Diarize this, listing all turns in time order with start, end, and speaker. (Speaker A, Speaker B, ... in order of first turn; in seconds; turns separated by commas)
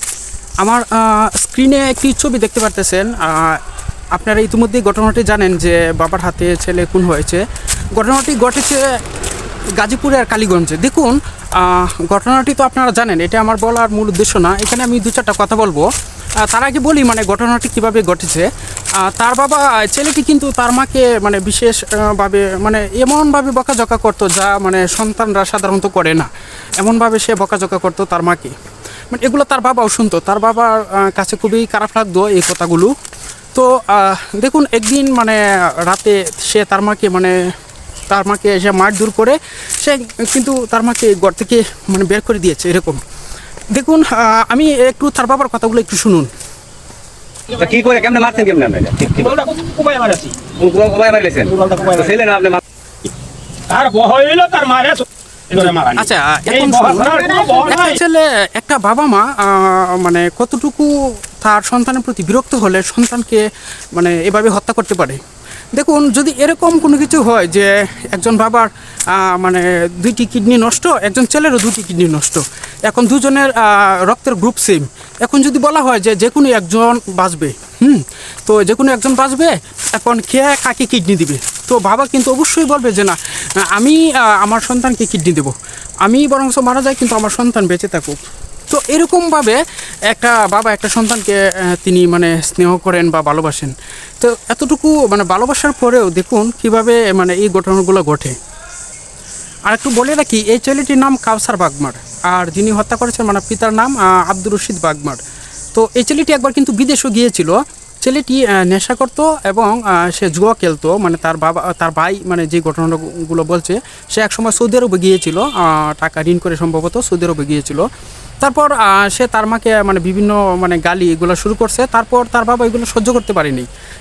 Speaker A: 0.6-3.6, Speaker A: 4.1-8.9, Speaker A: 9.8-15.9, Speaker A: 16.4-18.5, Speaker A: 19.0-26.3, Speaker A: 26.8-28.5, Speaker A: 29.1-32.9, Speaker A: 33.5-37.3, Speaker A: 38.1-43.0, Speaker A: 43.7-46.3, Speaker B: 47.5-49.4, Speaker C: 49.2-50.3, Speaker B: 50.6-52.6, Speaker C: 51.5-52.1, Speaker C: 53.7-58.0, Speaker A: 55.6-65.2, Speaker A: 65.7-88.2, Speaker A: 88.7-89.6, Speaker A: 90.1-98.3, Speaker A: 99.7-105.2, Speaker A: 105.7-117.8, Speaker A: 118.4-123.7